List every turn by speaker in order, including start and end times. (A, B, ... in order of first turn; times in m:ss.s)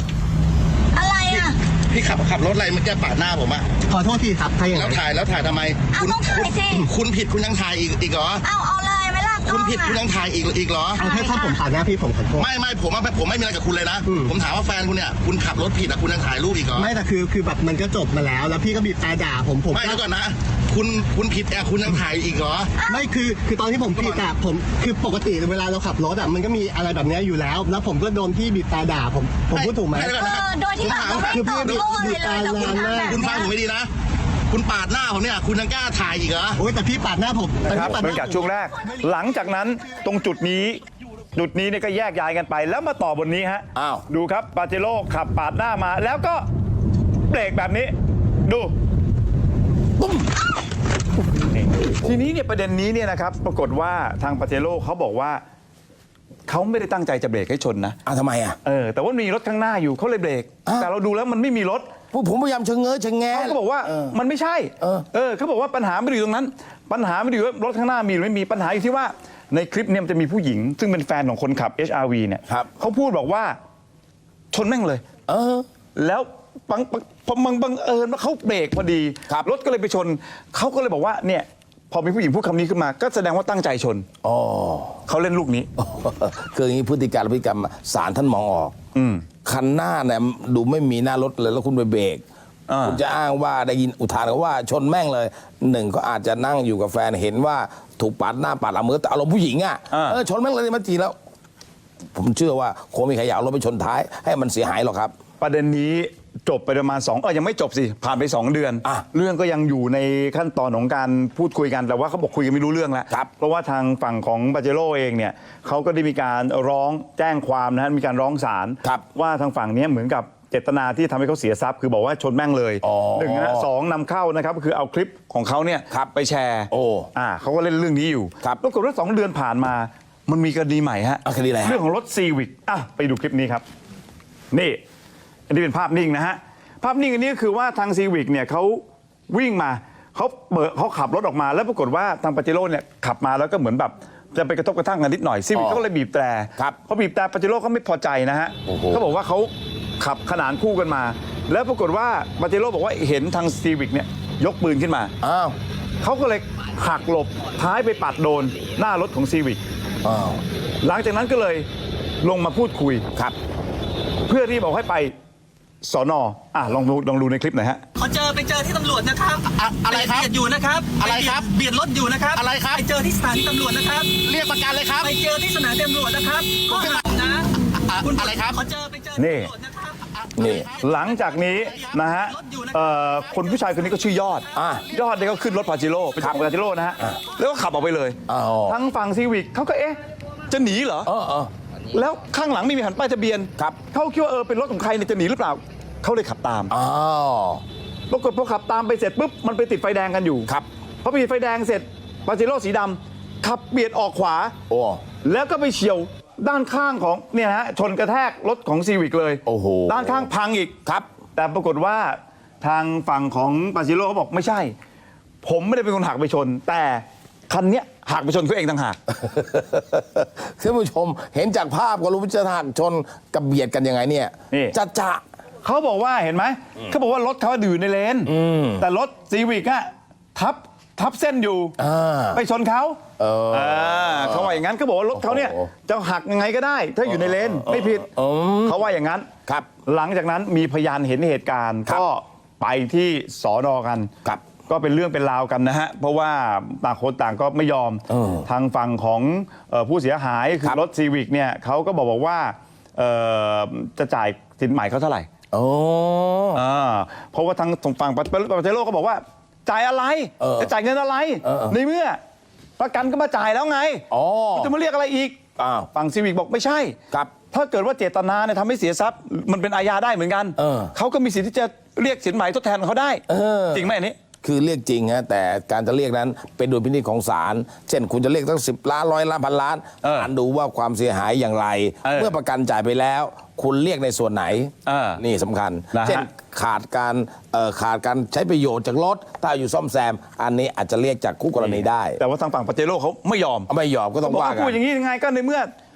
0:00.9-0:01.6 A
0:01.3-0:03.7 B
0:03.9-0:05.0 C
0:04.7-0:08.4 B
0:05.9-0:06.9 A
0:08.4-0:10.0 A
0:09.4-0:11.1 B
0:11.0-0:12.5 C
0:11.0-0:11.6 A
0:12.4-0:16.9 B
0:14.0-0:14.3 C
0:16.7-0:20.1 C
0:19.7-0:22.7 B
0:22.8-0:23.1 A
0:22.9-0:30.2 C
0:23.8-0:24.2 B
0:29.5-0:33.9 B
0:30.1-0:33.5 A
0:31.2-0:33.3 C
0:34.5-0:36.6 B
0:36.6-0:39.0 C
0:37.7-0:40.8 D
0:41.3-0:46.4 D
0:43.7-0:44.0 E
0:47.3-0:47.9 D
0:48.4-0:48.7 D
0:50.0-0:50.4 E
0:51.5-0:55.4 D
0:51.8-0:52.1 E
0:56.5-0:58.0 D
0:58.0-0:58.6 E
0:58.6-1:01.9 D
1:02.1-1:04.1 E
1:03.3-1:13.5 D
1:04.8-1:05.0 E
1:14.5-1:15.0 D
1:15.3-1:15.6 E
1:15.9-1:24.0 D
1:24.2-1:25.0 E
1:25.1-1:25.7 D
1:25.8-1:28.8 E
1:28.9-1:29.2 D
1:29.4-1:32.2 E
1:32.7-1:33.0 D
1:32.8-1:41.1 E
1:39.9-1:40.2 D
1:42.1-1:45.1 E
1:45.4-2:13.6 D
2:02.8-2:03.7 E
2:06.7-2:07.1 E
2:11.2-2:11.8 E
2:14.5-2:14.8 D
2:15.5-2:35.1 D
2:25.5-2:25.8 E
2:28.7-2:29.0 E
2:35.2-2:35.6 E
2:36.0-2:39.6 D
2:40.0-2:40.4 E
2:40.8-2:41.6 D
2:42.2-2:43.0 D
2:44.3-2:45.1 D
2:45.8-2:47.8 D
2:48.0-2:54.2 F
2:49.5-2:50.3 B
2:51.0-2:51.6 B
2:52.3-2:52.8 B
2:54.2-2:55.1 B
2:55.0-3:04.1 F
2:56.7-2:57.0 B
2:57.7-2:58.6 B
2:59.2-2:59.5 D
3:00.4-3:00.7 E
3:00.8-3:10.0 D
3:04.5-3:04.8 E
3:08.3-3:08.8 E
3:10.5-3:11.1 D
3:11.0-3:11.5 E
3:11.9-3:16.7 D
3:16.7-3:17.6 E
3:18.1-3:20.5 D
3:21.0-3:24.5 D
3:24.7-3:25.0 E
3:25.2-3:30.7 D
3:29.4-3:30.3 E
3:31.4-3:34.7 D
3:35.4-3:39.0 D
3:39.1-3:45.2 E
3:45.6-3:51.7 D
3:48.2-3:48.8 E
3:51.8-3:52.4 E
3:52.3-3:53.0 D
3:53.2-3:54.6 E
3:53.5-3:58.1 D
3:55.1-3:55.7 E
3:57.0-3:58.8 E
3:58.6-3:59.3 D
3:59.8-4:04.1 D
4:04.2-4:04.5 E
4:04.7-4:15.3 D
4:08.1-4:08.5 E
4:15.5-4:16.6 E
4:16.5-4:22.2 D
4:20.4-4:20.7 E
4:21.4-4:21.8 E
4:22.8-4:25.4 D
4:24.1-4:24.7 E
4:25.6-4:25.9 E
4:25.9-4:27.0 D
4:27.5-4:33.2 D
4:30.6-4:30.9 E
4:33.3-4:33.9 E
4:33.7-4:34.2 D
4:34.4-4:52.2 E
4:40.0-4:40.3 D
4:42.0-4:42.3 D
4:44.8-4:45.2 D
4:45.9-4:46.3 D
4:51.6-4:53.7 D
4:53.7-4:54.8 E
4:54.2-4:55.7 D